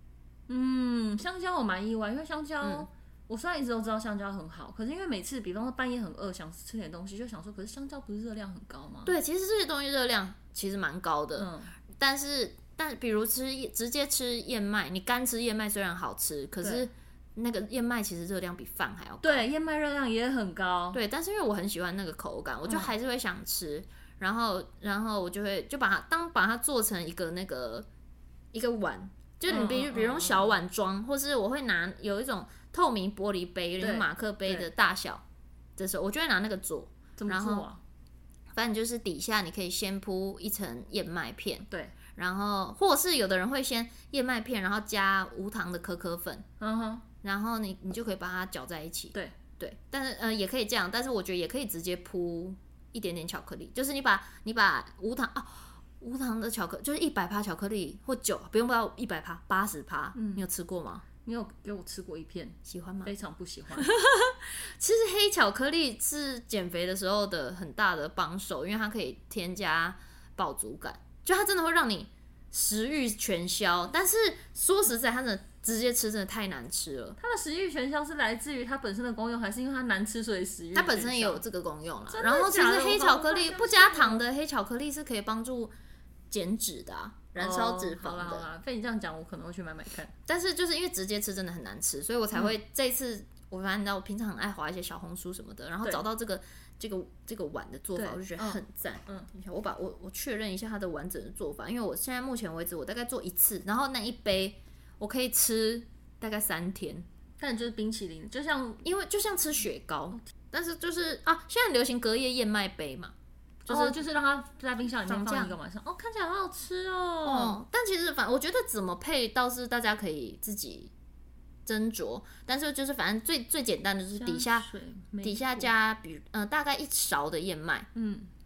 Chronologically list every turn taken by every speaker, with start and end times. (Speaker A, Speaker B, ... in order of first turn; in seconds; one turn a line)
Speaker A: 0.5-9.1
Speaker B: 2.6-2.9
Speaker B: 9.0-19.5
Speaker A: 11.3-11.7
Speaker A: 19.2-21.0
Speaker B: 20.9-27.9
Speaker A: 22.7-22.9
Speaker B: 28.5-35.2
Speaker A: 29.5-30.5
Speaker A: 33.8-34.7
Speaker B: 35.8-37.7
Speaker A: 37.2-37.8
Speaker B: 38.5-46.5
Speaker A: 46.6-47.0
Speaker B: 47.2-61.0
Speaker A: 60.1-60.4
Speaker A: 61.2-63.9
Speaker B: 62.6-63.1
Speaker B: 63.8-77.2
Speaker A: 77.2-81.4
Speaker B: 80.7-85.7
Speaker A: 82.1-84.2
Speaker B: 86.3-88.5
Speaker A: 87.4-90.1
Speaker B: 90.3-107.0
Speaker A: 98.0-99.3
Speaker A: 107.4-108.8
Speaker B: 108.8-113.1
Speaker B: 113.7-114.0
Speaker A: 113.7-117.6
Speaker B: 115.1-115.5
Speaker B: 117.2-120.9
Speaker B: 121.7-124.7
Speaker A: 124.2-125.7
Speaker B: 125.2-127.9
Speaker A: 127.9-128.3